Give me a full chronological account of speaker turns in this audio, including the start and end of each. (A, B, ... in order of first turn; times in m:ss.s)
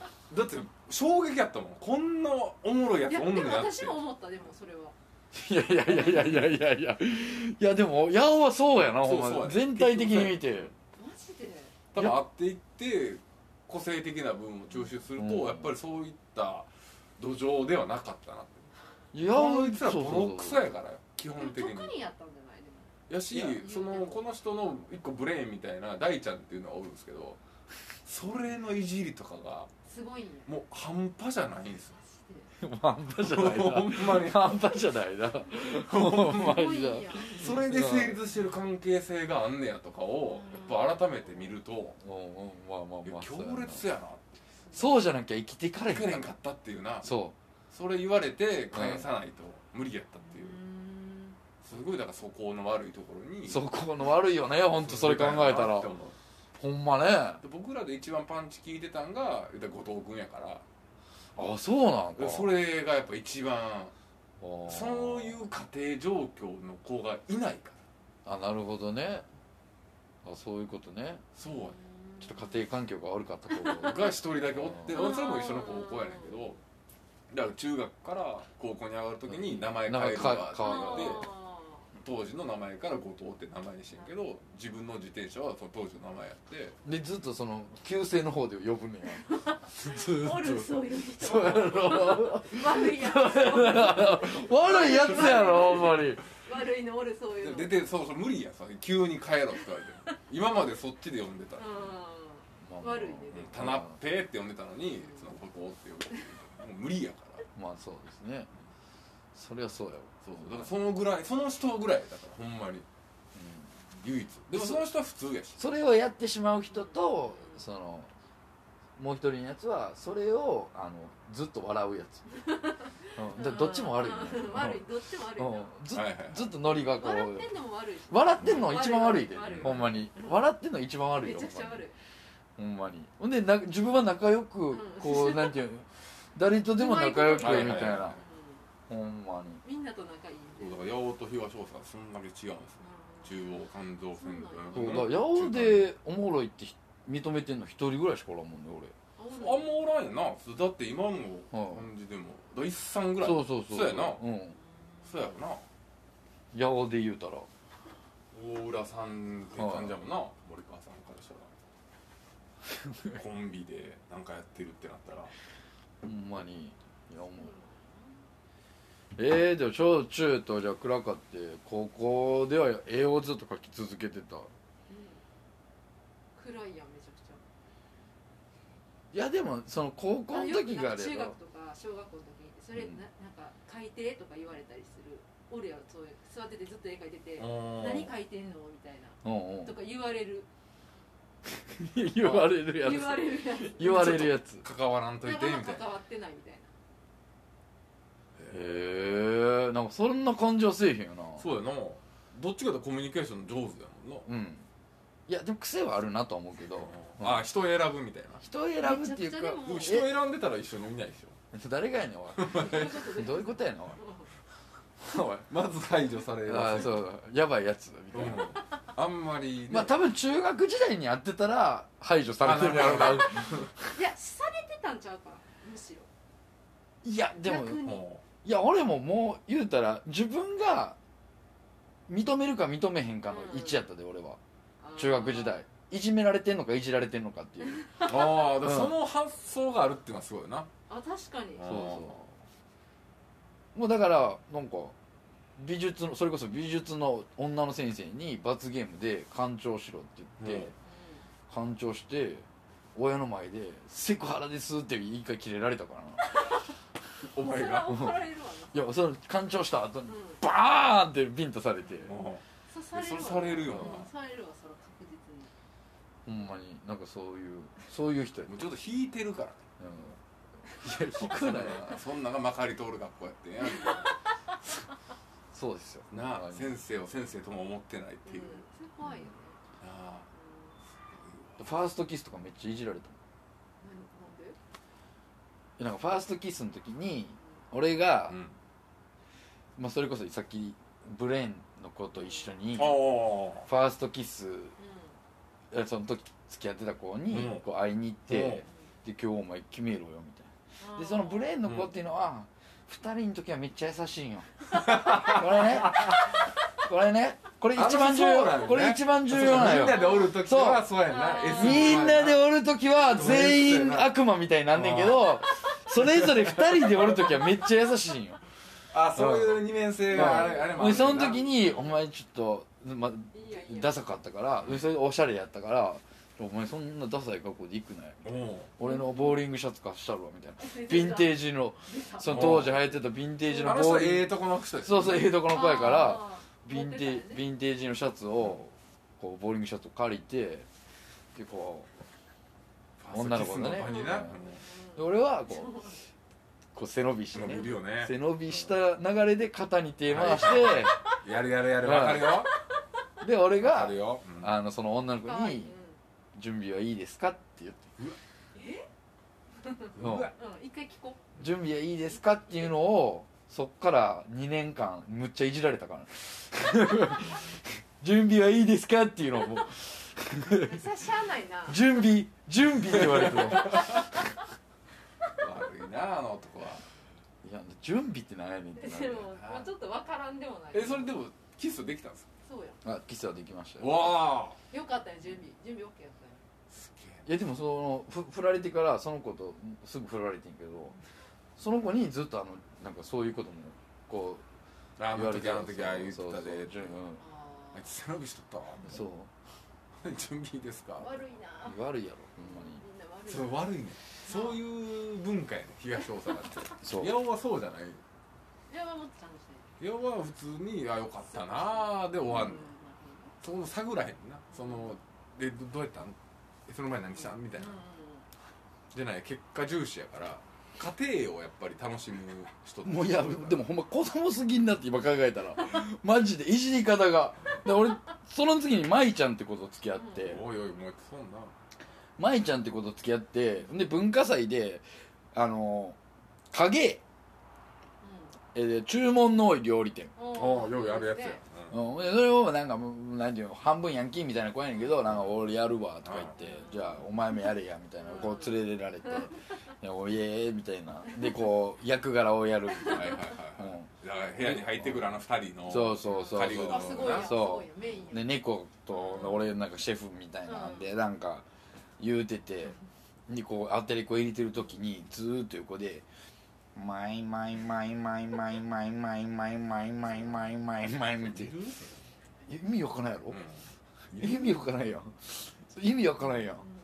0:00.3-0:04.0 A
0:03.0-0:04.9 B
0:05.3-0:10.7 C
0:08.8-0:10.7 A
0:10.9-0:11.7 B
0:11.9-0:22.0 A
0:12.0-0:12.2 C
0:15.2-0:15.7 C
0:19.1-0:20.7 C
0:21.3-0:24.2 B
0:23.1-0:27.4 A
0:28.0-0:29.7 A
0:29.8-0:30.5 B
0:30.4-0:32.0 A
0:32.0-0:32.5 B
0:32.6-0:38.2 C
0:33.2-0:34.7 A
0:35.5-0:42.0 A
0:36.3-0:37.5 B
0:40.3-0:41.4 B
0:42.0-0:43.8 C
0:43.0-0:44.4 A
0:44.7-0:46.3 C
0:45.9-0:47.1 A
0:47.0-0:47.3 C
0:47.7-0:50.6 A
0:48.7-0:49.1 C
0:50.3-0:51.4 B
0:51.6-0:53.6 A
0:53.5-0:55.9 C
0:54.7-0:56.2 A
0:56.6-0:57.4 C
0:57.4-1:00.6 A
1:01.4-1:02.5 C
1:02.2-1:03.9 A
1:04.4-1:05.4 C
1:04.6-1:07.8 A
1:08.2-1:09.2 C
1:10.2-1:11.2 C
1:11.4-1:11.8 A
1:11.5-1:12.6 B
1:12.2-1:15.0 C
1:13.5-1:14.0 B
1:13.7-1:16.6 A
1:14.9-1:16.6 B
1:17.3-1:21.3 A
1:19.3-1:21.3 C
1:20.6-1:21.8 B
1:21.9-1:26.8 A
1:26.8-1:36.2 C
1:29.2-1:37.9 B
1:34.6-1:35.8 A
1:37.4-1:41.8 A
1:41.6-1:43.7 B
1:42.6-1:44.0 C
1:43.3-1:47.4 A
1:47.5-1:48.5 C
1:49.3-1:50.7 C
1:50.2-1:52.9 A
1:53.3-1:53.7 C
1:53.9-1:55.6 A
1:54.5-1:54.9 C
1:55.6-1:58.1 C
1:56.7-1:57.6 B
1:59.0-2:02.2 C
2:02.3-2:05.7 B
2:03.2-2:04.8 C
2:05.4-2:07.5 C
2:05.9-2:06.5 A
2:06.8-2:10.5 B
2:08.1-2:11.8 C
2:08.4-2:08.8 A
2:09.4-2:09.9 A
2:11.2-2:11.9 B
2:12.6-2:18.2 C
2:14.7-2:15.6 B
2:16.7-2:18.7 B
2:17.3-2:18.2 A
2:18.9-2:19.6 C
2:19.6-2:20.8 B
2:20.6-2:25.9 A
2:22.8-2:23.6 B
2:24.2-2:25.0 B
2:24.7-2:28.9 C
2:29.2-2:29.7 B
2:29.3-2:34.2 A
2:31.5-2:31.8 C
2:33.2-2:34.6 C
2:35.0-2:35.6 A
2:36.5-2:37.5 C
2:38.3-2:41.5 A
2:39.6-2:39.9 C
2:43.0-2:45.3 A
2:46.0-2:47.6 C
2:47.4-2:48.2 B
2:49.2-2:54.5 C
2:54.9-2:55.2 B
2:56.4-2:57.4 B
2:59.1-3:01.4 C
3:00.3-3:10.5 B
3:07.4-3:08.1 A
3:09.2-3:09.7 C
3:11.6-3:14.6 C
3:12.2-3:12.5 A
3:12.6-3:14.2 B
3:13.8-3:15.9 A
3:15.2-3:16.7 B
3:18.4-3:19.1 A
3:18.5-3:21.5 C
3:21.4-3:24.3 A
3:24.2-3:24.6 C
3:25.3-3:27.4 C
3:26.8-3:28.4 A
3:28.4-3:30.1 C
3:28.8-3:30.0 B
3:29.6-3:31.4 A
3:31.5-3:34.0 C
3:32.3-3:33.1 A
3:32.5-3:34.3 B
3:35.0-3:35.5 C
3:35.5-3:37.1 A
3:36.4-3:38.6 C
3:38.1-3:40.0 A
3:39.7-3:43.9 C
3:42.4-3:43.7 A
3:43.9-3:46.1 B
3:47.0-3:47.8 C
3:47.3-3:48.0 B
3:47.7-3:48.2 A
3:48.4-3:51.0 C
3:52.1-3:54.4 C
3:53.2-3:53.8 B
3:54.8-3:55.6 B
3:55.0-3:59.0 C
3:58.0-4:00.7 A
4:00.9-4:02.0 B
4:01.6-4:02.2 A
4:01.6-4:02.2 C
4:03.7-4:04.9 C
4:05.6-4:10.7 C
4:10.4-4:10.7 A
4:10.8-4:11.2 B
4:11.5-4:16.6 C
4:17.3-4:18.1 A
4:17.4-4:19.0 B
4:17.9-4:18.1 C
4:18.7-4:22.1 C
4:20.1-4:20.4 B
4:22.0-4:24.1 A
4:22.7-4:25.5 B
4:23.7-4:24.0 C
4:26.2-4:28.5 C
4:28.4-4:29.6 A
4:29.8-4:32.0 C
4:30.8-4:34.1 A
4:33.7-4:34.1 B
4:35.5-4:36.7 C
4:36.1-4:38.6 A
4:38.2-4:39.6 B
4:39.8-4:40.3 A
4:40.4-4:41.2 B
4:41.2-4:41.6 A
4:41.6-4:43.2 C
4:43.8-4:44.6 B
4:45.8-4:48.4 C
4:48.3-4:48.6 A
4:49.8-4:54.7 C
4:52.2-4:52.5 B
4:52.7-4:53.7 A
4:54.8-4:55.1 B
4:55.7-5:10.9 C
4:57.3-4:57.6 A
4:58.3-4:58.6 A
5:00.8-5:01.5 B
5:01.6-5:01.9 A
5:04.7-5:06.3 A
5:07.7-5:14.2 A
5:09.8-5:10.3 B
5:11.0-5:12.1 B
5:11.5-5:18.4 C
5:14.7-5:17.4 A
5:18.9-5:21.4 A
5:19.2-5:28.3 C
5:20.1-5:22.0 B
5:23.3-5:24.0 B
5:28.2-5:28.7 A
5:28.8-5:40.7 C
5:28.8-5:29.4 B
5:30.6-5:32.7 B
5:32.2-5:32.8 A
5:33.5-5:35.5 A
5:35.4-5:37.4 B
5:41.3-5:41.9 C
5:43.0-5:44.6 A
5:43.1-5:44.3 C
5:43.8-5:46.0 B
5:45.0-5:45.8 C
5:46.7-5:51.0 C
5:47.3-5:48.7 A
5:50.1-5:52.5 A
5:50.9-5:51.1 B
5:51.8-5:52.5 C
5:53.2-5:55.7 C
5:53.6-5:54.5 A
5:55.2-5:56.0 B
5:56.3-5:57.9 C
5:58.5-5:58.9 B
5:59.6-6:01.2 B
6:00.0-6:00.3 A
6:00.0-6:00.3 C
6:01.4-6:10.8 C
6:10.5-6:12.0 B
6:11.7-6:14.3 C
6:13.1-6:13.7 A
6:15.3-6:16.8 A
6:17.4-6:19.3 C
6:18.8-6:21.1 B
6:19.4-6:19.7 A
6:20.7-6:22.3 A
6:22.4-6:22.8 B
6:22.8-6:24.2 C
6:23.8-6:24.6 A
6:24.7-6:26.4 B
6:26.7-6:27.3 A
6:27.2-6:31.0 C
6:31.6-6:34.4 C
6:35.0-6:37.0 A
6:35.1-6:37.2 C
6:37.2-6:37.9 B
6:37.7-6:39.0 A
6:38.8-6:39.3 C
6:40.0-6:41.2 A
6:41.0-6:41.8 B
6:41.6-6:42.8 C
6:42.4-6:43.6 B
6:43.3-6:48.0 A
6:44.2-6:44.6 B
6:46.8-6:47.2 C
6:48.7-6:49.7 B
6:49.8-6:52.7 A
6:51.3-6:53.3 B
6:53.4-6:57.8 A
6:54.5-6:54.9 B
6:57.3-6:58.2 B
6:58.9-7:03.6 A
7:02.8-7:10.4 C
7:10.0-7:10.3 B
7:10.1-7:11.5 A
7:12.2-7:16.0 C
7:16.5-7:17.0 C
7:18.0-7:18.3 B
7:18.5-7:20.1 C
7:20.2-7:21.4 B
7:20.3-7:21.8 A
7:21.7-7:33.9 C
7:26.0-7:26.3 A
7:26.3-7:27.1 B
7:28.0-7:29.4 B
7:31.1-7:31.4 B
7:32.7-7:33.2 B
7:32.9-7:37.4 A
7:34.4-7:35.0 C
7:35.7-7:41.4 C
7:36.0-7:39.5 B
7:40.4-7:40.9 B
7:42.0-7:42.8 C
7:43.3-7:46.0 C
7:46.7-7:51.6 C
7:51.2-7:51.9 A
7:52.5-7:53.4 C
7:53.3-7:54.5 A
7:54.1-7:56.6 C